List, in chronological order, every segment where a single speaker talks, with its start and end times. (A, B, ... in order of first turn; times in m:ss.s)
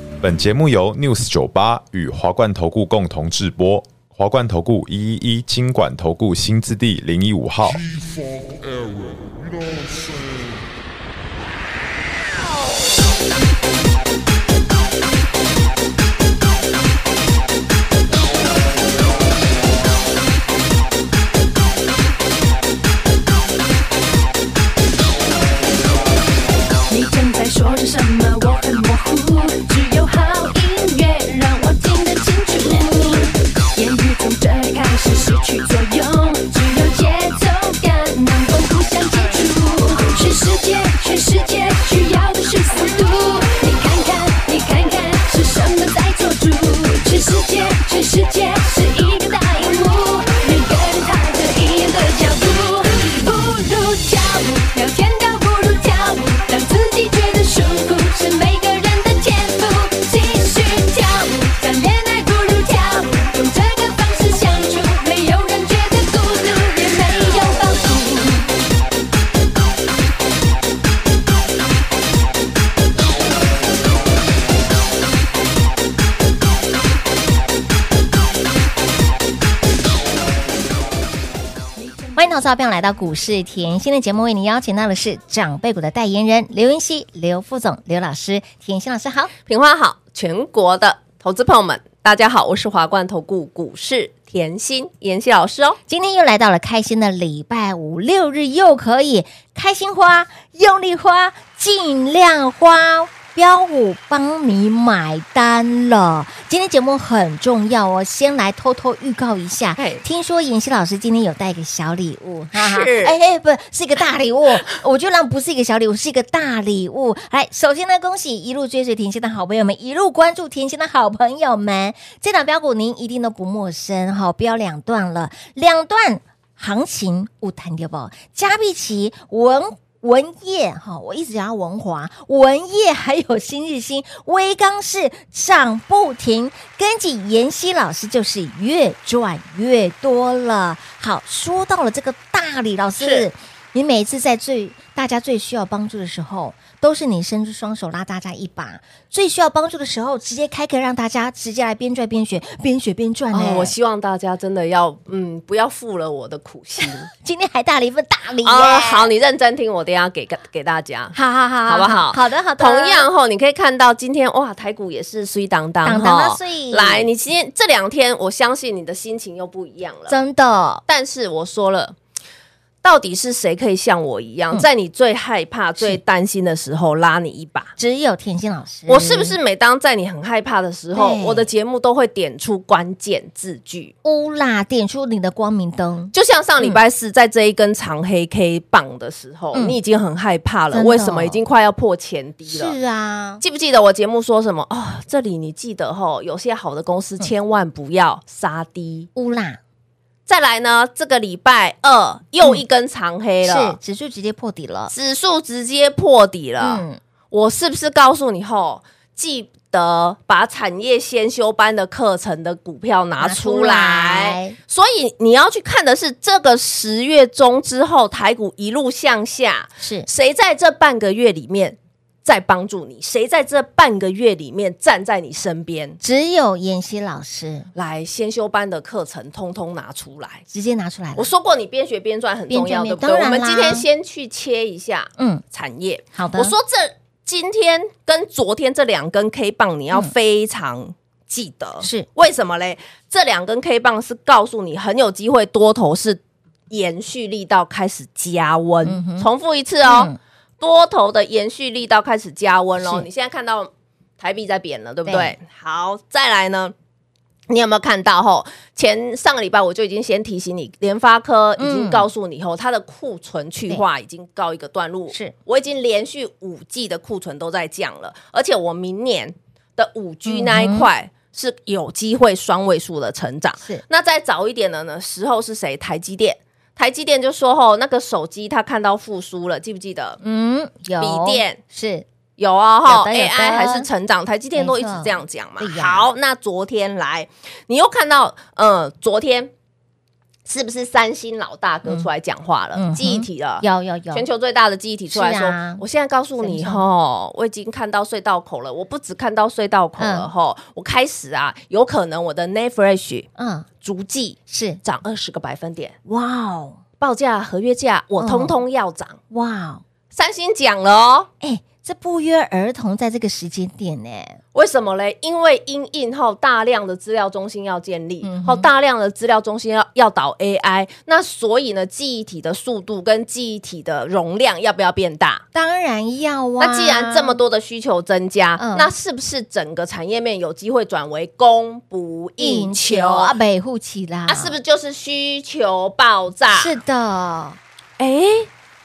0:00.2-0:07.8 A
0:07.6-0:10.6 B
0:26.9-1:08.5 C
1:22.1-1:29.3 D
1:29.5-1:35.8 E
1:35.9-2:33.7 D
1:49.8-1:50.0 E
1:52.5-1:53.2 E
2:23.0-2:23.3 E
2:33.3-2:37.1 E
2:37.2-2:39.1 D
2:38.4-2:50.2 E
2:41.1-2:43.1 D
2:45.8-2:47.1 D
2:50.1-2:50.8 D
2:50.9-2:52.0 E
2:52.8-2:57.7 E
2:57.8-2:59.4 D
2:58.9-3:03.9 E
3:00.9-3:01.5 D
3:04.0-3:06.8 D
3:06.1-3:12.8 E
3:10.7-3:11.4 D
3:12.5-3:13.4 D
3:13.4-3:19.1 E
3:19.1-3:19.6 D
3:20.2-3:23.8 E
3:23.4-3:24.9 D
3:24.9-3:46.0 E
3:26.6-3:27.0 D
3:33.2-3:34.6 D
3:39.8-3:40.1 D
3:46.0-3:47.7 D
3:47.7-3:50.4 E
3:50.5-3:51.3 D
3:51.2-4:16.7 E
3:52.5-3:53.8 D
3:55.2-3:55.4 D
3:56.1-3:56.5 D
4:01.8-4:02.1 D
4:08.8-4:09.3 D
4:09.8-4:10.2 D
4:12.8-4:13.0 D
4:15.0-4:15.4 D
4:17.5-4:40.2 E
4:21.6-4:22.1 D
4:30.3-4:30.9 D
4:40.2-4:42.0 D
4:41.0-4:41.6 E
4:42.4-4:49.5 E
4:42.8-4:43.9 D
4:44.6-4:46.1 D
4:50.4-5:03.3 E
4:52.7-4:54.3 D
4:55.1-4:55.8 D
4:56.4-4:56.8 D
5:00.0-5:00.3 D
5:03.4-5:03.7 D
5:03.8-5:05.9 E
5:04.5-5:04.8 D
5:06.0-5:06.8 D
5:07.0-5:09.2 E
5:08.2-5:08.6 D
5:09.3-5:09.8 D
5:10.1-5:11.3 E
5:11.4-5:14.4 D
5:14.5-5:25.4 E
5:18.2-5:18.7 D
5:25.5-5:27.4 D
5:26.6-5:33.3 E
5:28.6-5:28.9 D
5:32.4-5:34.6 D
5:34.3-5:36.7 E
5:36.5-5:37.6 D
5:38.0-5:38.5 E